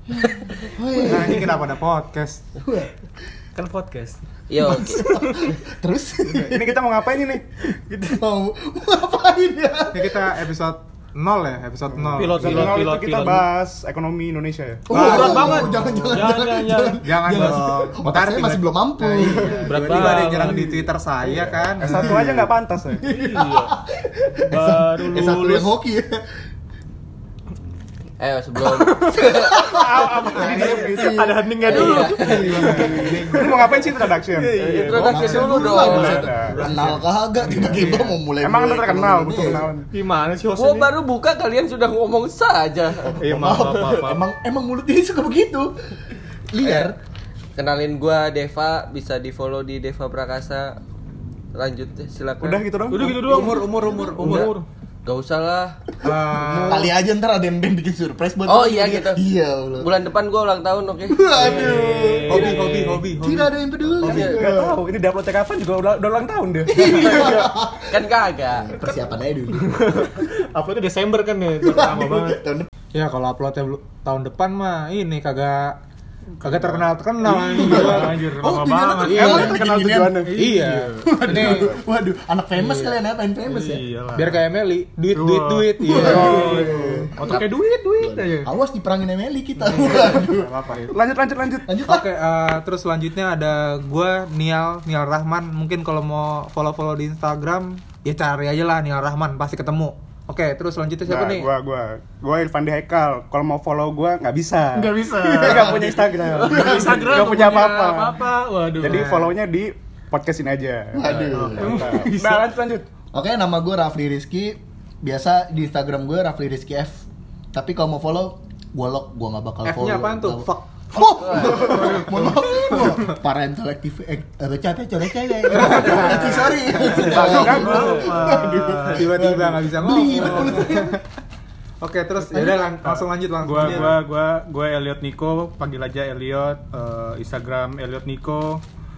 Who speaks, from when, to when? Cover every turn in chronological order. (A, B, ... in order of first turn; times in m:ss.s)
0:00.2-0:01.6 A
0:01.0-0:02.5 B
0:02.6-0:02.9 A
0:03.6-0:04.2 C
0:04.5-0:05.1 D
0:04.7-0:06.8 A
0:04.8-0:05.4 C
0:06.5-0:07.4 E
0:07.9-0:10.4 A
0:09.9-0:12.8 B
0:12.1-0:13.5 C
0:12.2-0:14.9 E
0:14.9-0:19.6 A
0:14.9-0:16.0 B
0:14.9-0:17.7 C
0:17.0-0:22.2 B
0:19.2-0:22.2 C
0:21.8-0:23.1 E
0:23.0-0:26.2 A
0:23.1-0:23.7 C
0:24.5-0:25.7 C
0:28.2-0:29.8 D
0:28.7-0:36.2 C
0:29.2-0:31.3 A
0:30.2-0:31.3 E
0:30.4-0:30.7 D
0:31.6-0:33.2 D
0:32.5-0:33.4 B
0:32.6-0:34.6 E
0:34.4-0:36.3 D
0:35.1-0:37.8 B
0:35.2-0:39.7 A
0:35.8-0:36.6 E
0:37.6-0:38.1 C
0:38.4-0:39.9 E
0:39.9-0:40.9 C
0:40.6-0:43.2 D
0:43.2-0:44.2 C
0:43.2-0:47.0 A
0:46.6-0:47.0 D
0:47.6-0:50.8 D
0:51.5-0:52.7 D
0:52.4-0:53.4 E
0:52.9-0:54.7 C
0:53.2-0:54.5 D
0:53.2-0:54.5 B
0:55.0-0:55.8 D
0:56.0-0:56.9 B
0:56.0-0:59.9 A
0:58.5-0:59.2 D
0:59.8-1:01.9 D
1:01.1-1:02.6 A
1:01.4-1:03.0 C
1:02.3-1:03.5 B
1:03.2-1:04.6 A
1:04.0-1:04.6 D
1:04.0-1:07.5 E
1:06.7-1:08.0 A
1:07.1-1:08.8 D
1:08.7-1:09.8 A
1:09.6-1:12.4 C
1:11.6-1:12.7 A
1:12.9-1:15.8 B
1:16.4-1:19.4 C
1:16.4-1:18.2 B
1:17.2-1:20.2 A
1:19.0-1:19.6 B
1:19.2-1:20.3 E
1:20.2-1:21.7 C
1:20.3-1:21.7 B
1:21.0-1:23.8 A
1:22.6-1:23.0 B
1:23.5-1:24.4 C
1:24.1-1:26.5 B
1:25.1-1:28.5 C
1:25.8-1:30.5 A
1:26.5-1:26.8 E
1:29.7-1:30.9 B
1:30.9-1:31.7 E
1:31.7-1:32.1 A
1:31.9-1:41.5 B
1:41.0-1:52.8 E
1:44.7-1:49.3 C
1:45.4-1:45.8 A
1:46.5-1:47.1 A
1:50.9-1:52.0 A
1:51.1-1:52.5 C
1:53.1-2:11.0 A
1:59.6-2:02.0 B
2:01.3-2:01.7 D
2:05.6-2:06.3 B
2:06.9-2:09.0 C
2:07.0-2:07.9 B
2:07.0-2:08.3 E
2:08.9-2:11.0 B
2:10.2-2:10.5 C
2:11.8-2:14.0 B
2:12.3-2:18.6 C